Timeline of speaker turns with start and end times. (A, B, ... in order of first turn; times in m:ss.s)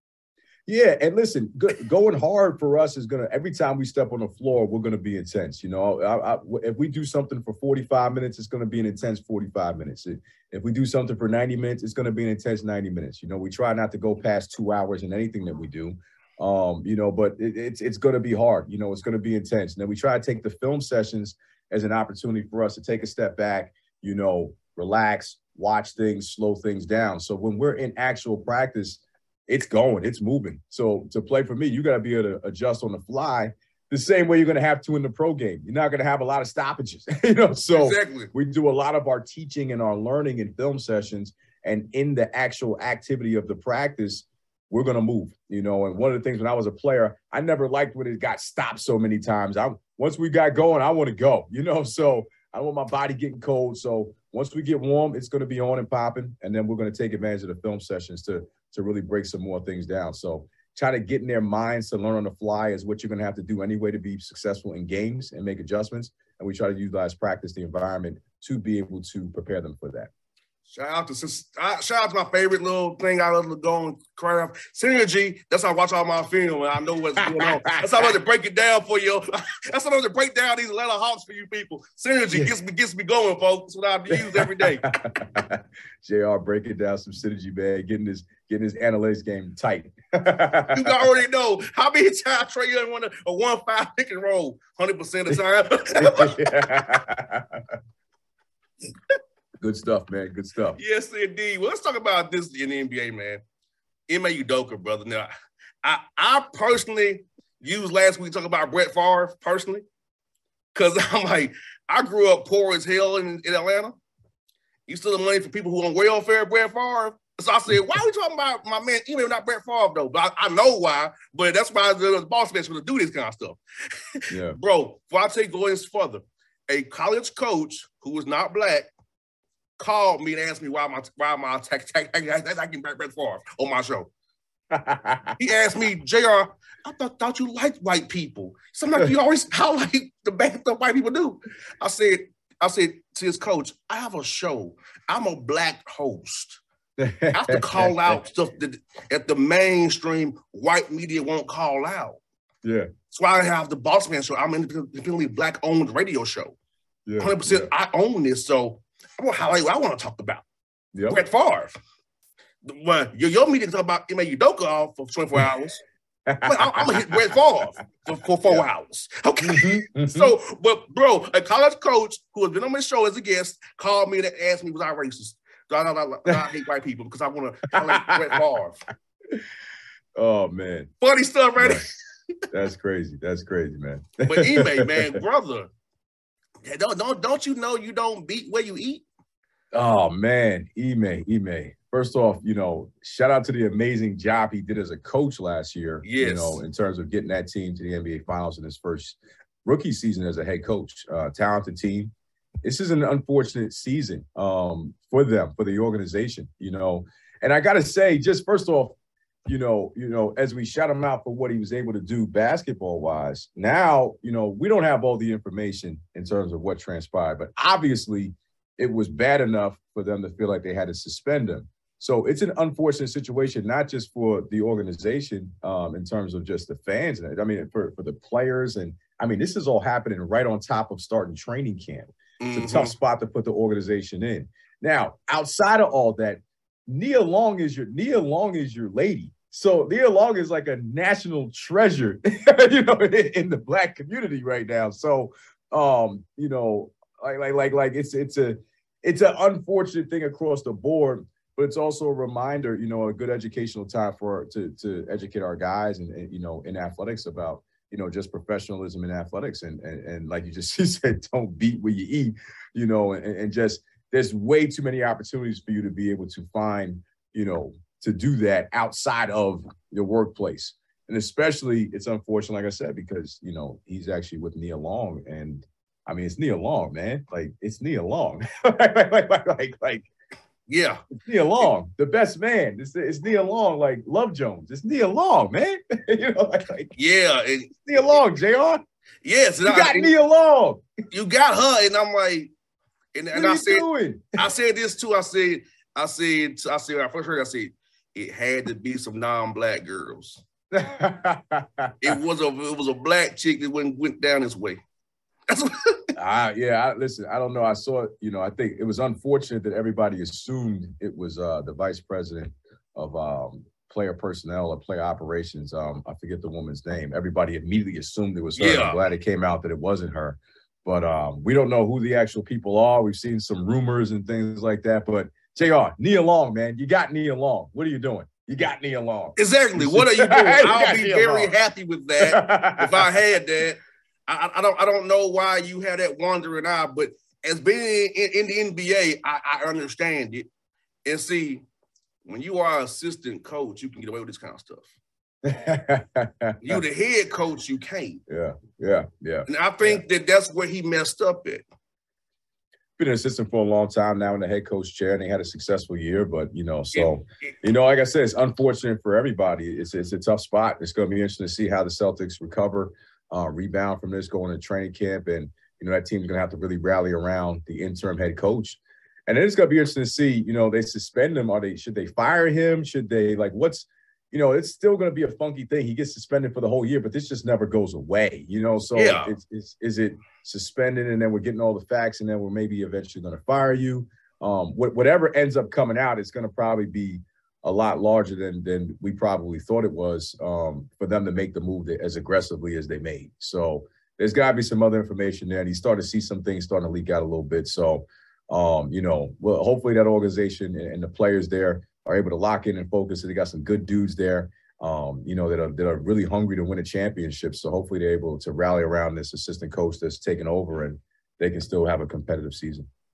0:00.6-1:10.1 A
0:37.7-0:38.3 B
1:10.7-1:24.9 B
1:17.2-1:18.0 A
1:24.1-1:31.0 A
1:30.7-1:36.4 B
1:36.0-1:37.6 A
1:39.6-1:40.8 A
1:40.8-1:43.4 B
1:44.1-1:45.3 B
1:45.8-1:49.8 B
1:50.7-1:54.0 B
1:54.9-2:03.6 B
2:04.3-2:04.6 A
2:04.5-2:08.9 B
2:09.8-2:14.1 B
2:14.7-2:15.3 A
2:15.4-2:26.6 B
2:27.0-2:27.9 A
2:27.3-2:32.2 B
2:32.6-2:32.9 A
2:33.1-2:36.6 B
2:37.0-2:37.7 A
2:37.2-2:40.4 B
2:40.9-2:41.2 A
2:41.1-2:41.7 B
2:42.6-2:45.8 B
2:46.3-2:47.2 A
2:46.4-2:58.8 B
2:49.4-2:50.3 A
2:57.9-2:58.4 A
3:00.1-3:00.9 A
3:01.0-3:01.9 B
3:01.6-3:01.8 A
3:02.5-3:05.2 A
3:04.2-3:05.7 B
3:06.6-3:09.0 B
3:09.7-3:22.1 A
3:16.0-3:16.6 B
3:22.6-4:40.1 A
3:52.4-3:52.9 B
4:40.7-4:41.1 B
4:41.2-4:46.9 A
4:46.9-4:47.9 B
4:47.8-4:48.8 A
4:49.2-4:50.1 B
4:49.6-4:50.8 A
4:51.1-4:52.5 B
4:53.1-4:53.8 B
4:53.3-4:54.4 A
4:54.4-5:00.4 B
5:00.7-5:02.1 A
5:02.0-5:04.8 B
5:05.5-5:06.0 B
5:06.2-5:31.5 A
5:18.6-5:19.0 B
5:29.4-5:40.5 B
5:32.2-5:33.1 A
5:41.0-5:41.6 B
5:42.2-5:44.9 B
5:45.4-5:46.8 A
5:46.6-5:48.2 B
5:48.3-5:50.0 A
5:49.5-5:51.6 B
5:53.0-6:52.9 A
6:18.9-6:19.3 B